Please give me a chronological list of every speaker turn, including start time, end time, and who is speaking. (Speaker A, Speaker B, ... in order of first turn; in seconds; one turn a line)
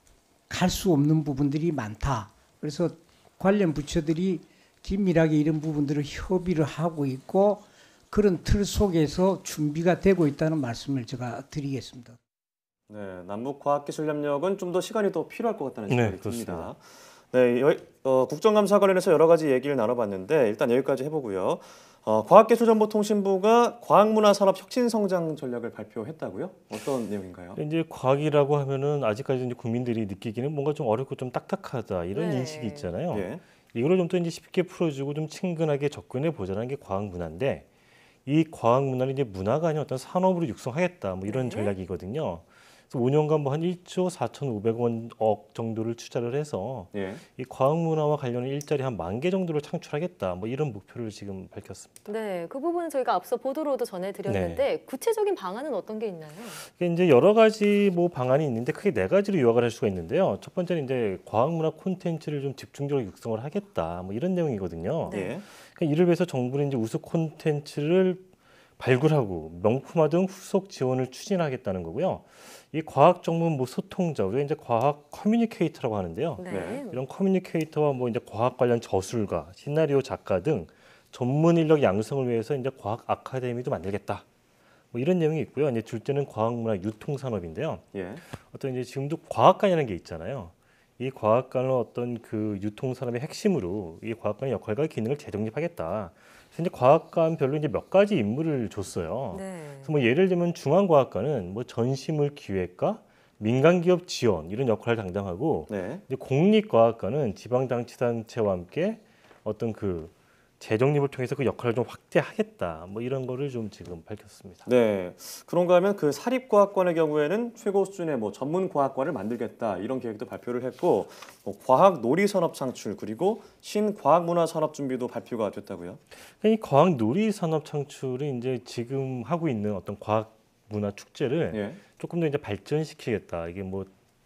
Speaker A: 0.5-12.2
Speaker B: 12.9-27.6
Speaker C: 15.9-16.7
Speaker C: 27.6-37.7
Speaker D: 32.1-32.9
Speaker B: 33.1-33.4
Speaker C: 38.3-52.0
Speaker D: 41.3-41.7
Speaker B: 46.9-47.2
Speaker D: 52.1-56.6
Speaker C: 54.3-54.7
Speaker C: 56.7-84.2
Speaker D: 65.1-65.3
Speaker B: 65.1-65.5
Speaker D: 76.4-77.0
Speaker B: 76.5-76.8
Speaker C: 84.9-114.7
Speaker B: 87.9-88.2
Speaker D: 99.3-99.9
Speaker B: 105.7-106.0
Speaker B: 114.7-126.0
Speaker C: 126.4-133.9
Speaker B: 131.5-131.8